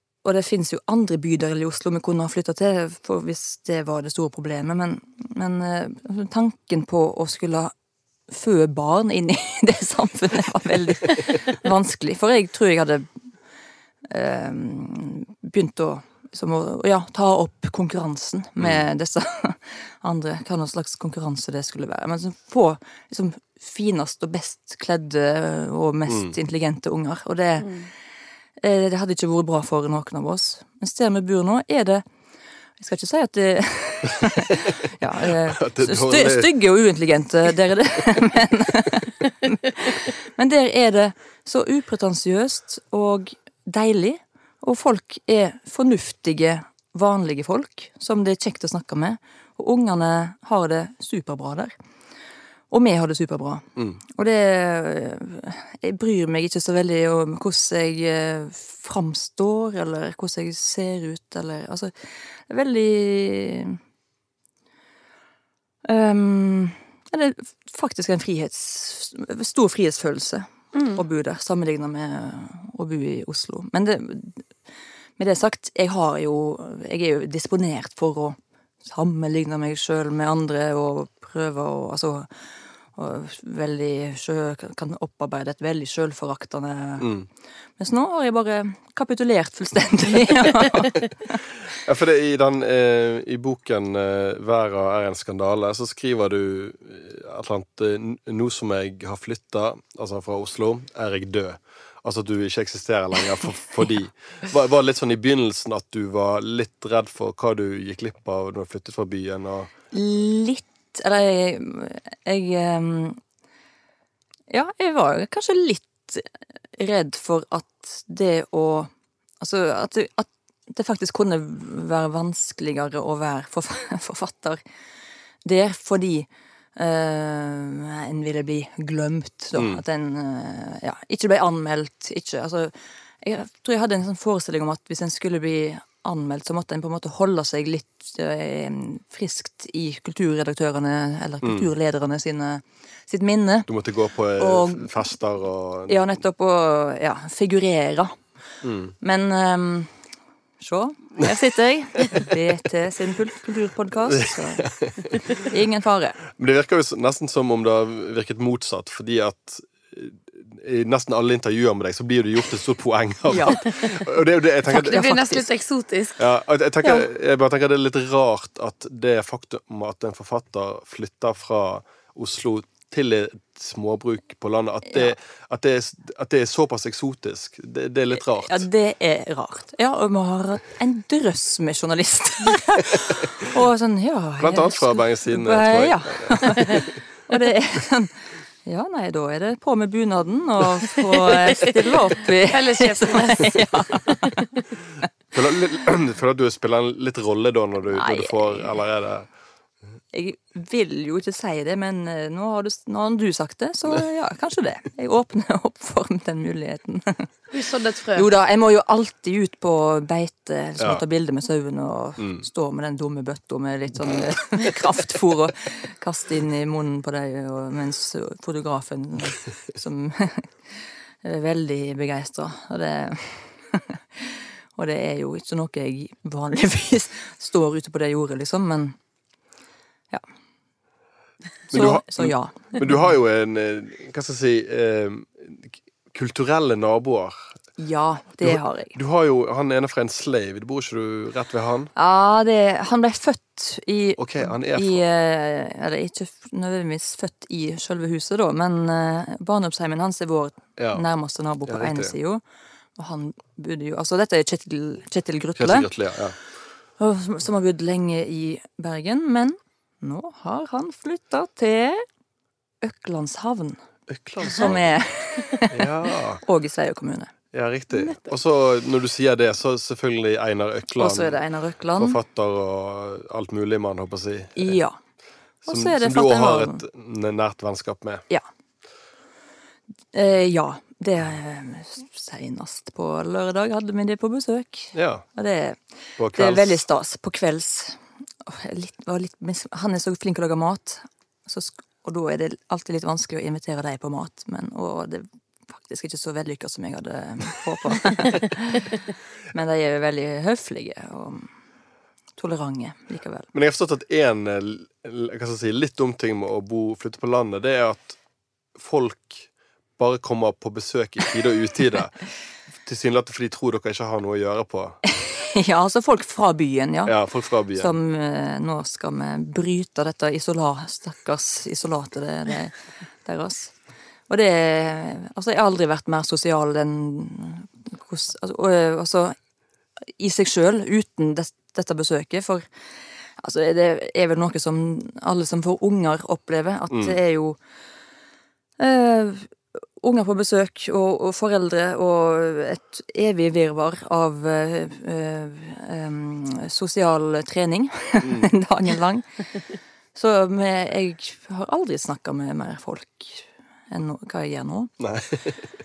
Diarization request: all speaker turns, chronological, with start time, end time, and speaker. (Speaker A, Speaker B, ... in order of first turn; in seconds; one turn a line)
Speaker A: 0.2-7.7
Speaker A: 8.3-13.1
Speaker A: 14.1-27.9
Speaker B: 26.1-26.3
Speaker A: 28.6-32.0
Speaker A: 32.8-51.7
Speaker B: 34.2-34.5
Speaker B: 35.2-36.5
Speaker A: 52.7-63.8
Speaker A: 65.8-74.5
Speaker C: 70.7-71.0
Speaker A: 75.2-82.3
Speaker A: 83.0-87.1
Speaker B: 87.0-87.3
Speaker A: 87.8-91.4
Speaker B: 91.8-109.7
Speaker A: 109.9-113.2
Speaker A: 114.5-124.6
Speaker A: 125.5-143.7
Speaker B: 129.6-129.8
Speaker B: 143.7-146.2
Speaker A: 144.4-145.2
Speaker A: 145.9-148.2
Speaker B: 148.6-148.9
Speaker A: 149.0-150.0
Speaker A: 150.6-154.7
Speaker B: 154.1-155.4
Speaker A: 155.3-156.2
Speaker B: 156.3-165.3
Speaker A: 163.3-163.7
Speaker A: 164.7-165.5
Speaker C: 164.8-166.2
Speaker B: 166.2-178.7
Speaker A: 174.9-175.1
Speaker A: 178.2-194.6
Speaker B: 184.4-187.0
Speaker C: 191.3-191.6
Speaker C: 192.5-194.3
Speaker B: 195.3-199.3
Speaker A: 197.9-198.8
Speaker A: 200.1-207.3
Speaker C: 207.5-208.3
Speaker A: 208.1-229.0
Speaker B: 231.7-237.5
Speaker A: 231.7-232.9
Speaker A: 237.8-239.0
Speaker B: 238.4-241.9
Speaker A: 241.9-252.4
Speaker B: 244.2-245.0
Speaker B: 250.8-251.1
Speaker B: 251.7-252.2
Speaker A: 253.0-255.9
Speaker B: 255.6-256.4
Speaker A: 257.0-262.1
Speaker A: 262.8-263.8
Speaker B: 264.1-264.9
Speaker A: 264.4-265.9
Speaker B: 265.7-266.4
Speaker A: 266.4-267.3
Speaker B: 267.5-271.4
Speaker A: 271.0-272.2
Speaker B: 272.0-274.8
Speaker A: 274.6-275.0
Speaker A: 275.6-276.8
Speaker B: 275.7-278.2
Speaker A: 280.1-285.8
Speaker B: 284.9-285.2
Speaker B: 286.2-286.9
Speaker A: 286.3-299.0
Speaker A: 299.5-301.5
Speaker A: 302.4-303.5
Speaker B: 303.5-308.2
Speaker B: 308.8-312.2
Speaker B: 312.8-315.0
Speaker A: 315.1-317.2
Speaker B: 317.1-317.9
Speaker A: 317.7-323.8
Speaker A: 324.3-329.4
Speaker A: 330.1-332.7
Speaker A: 333.4-337.6
Speaker B: 336.9-337.2
Speaker A: 338.8-349.4
Speaker B: 348.2-348.5
Speaker A: 350.1-354.9
Speaker B: 355.0-355.7